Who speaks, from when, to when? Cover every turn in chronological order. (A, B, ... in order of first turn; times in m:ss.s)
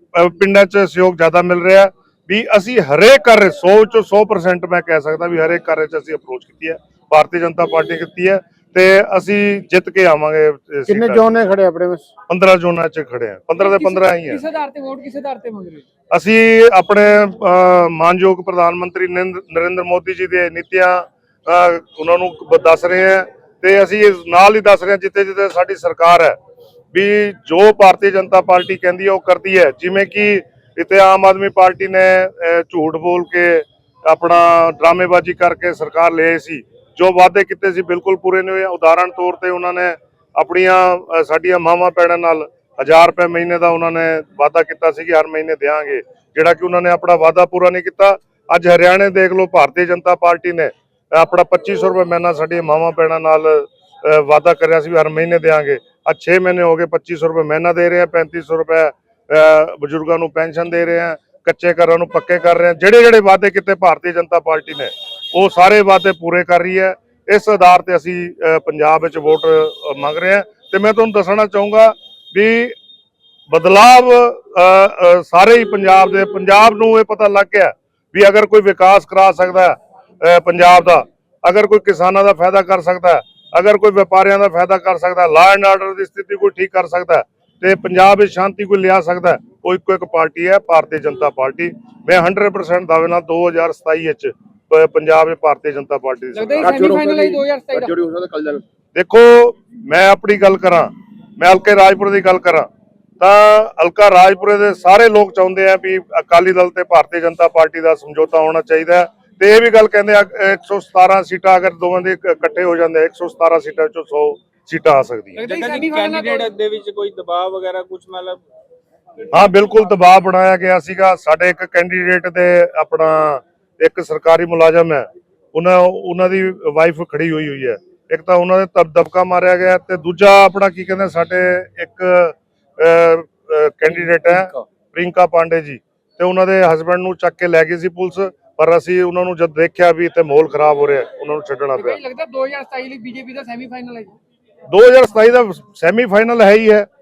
0:00.1-0:11.3 A
0:10.9-0:12.1 B
0:12.3-0:14.4 A
0:13.6-0:15.8 C
0:16.1-0:26.4 A
0:26.9-1:12.8 A
1:13.5-1:36.8 A
1:36.3-1:37.9 C
1:36.6-1:38.6 B
1:39.0-1:42.7 A
1:43.2-1:55.4 A
1:55.4-1:56.5 C
1:55.4-1:58.4 D
1:59.3-2:22.0 A
2:21.8-2:24.2 C
2:24.7-2:26.9 A